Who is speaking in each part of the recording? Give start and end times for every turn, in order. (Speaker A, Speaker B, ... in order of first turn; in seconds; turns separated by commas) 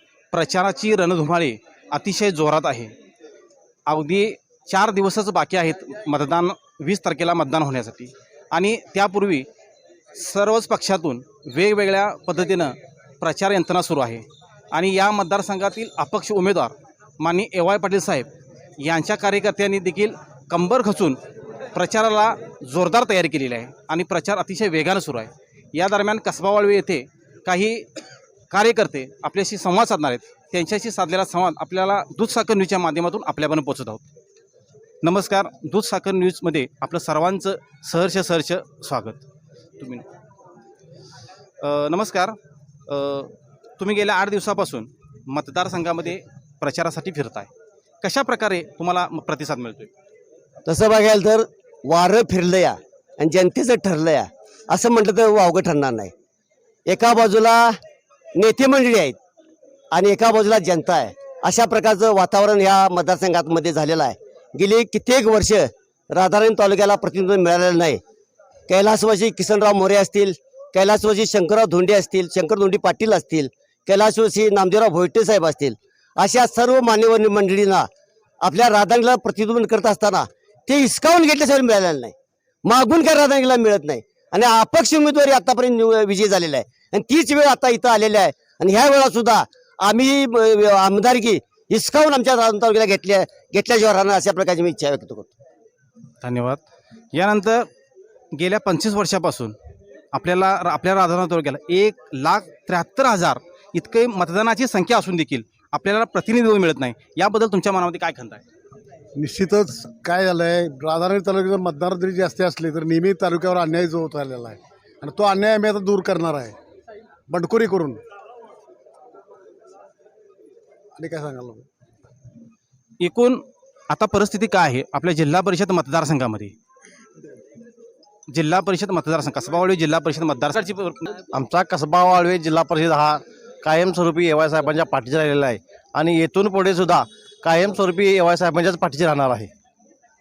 Speaker A: 0.3-2.9, Speaker A: 3.9-9.4, Speaker A: 10.1-18.3, Speaker A: 18.8-21.2, Speaker A: 21.7-27.9, Speaker A: 28.5-34.0, Speaker A: 35.0-39.2, Speaker A: 39.8-40.0, Speaker A: 41.6-42.4, Speaker A: 42.9-47.5, Speaker A: 48.0-49.9, Speaker B: 50.6-56.1, Speaker B: 56.9-57.8, Speaker B: 58.3-59.2, Speaker B: 59.9-68.0, Speaker B: 68.7-77.8, Speaker B: 78.4-82.1, Speaker B: 82.6-95.3, Speaker A: 96.2-96.6, Speaker A: 97.1-97.7, Speaker A: 98.3-99.5, Speaker A: 100.1-108.4, Speaker C: 109.2-116.5, Speaker C: 117.3-118.0, Speaker C: 121.0-121.6, Speaker A: 123.0-126.5, Speaker A: 128.3-131.1, Speaker D: 131.3-139.5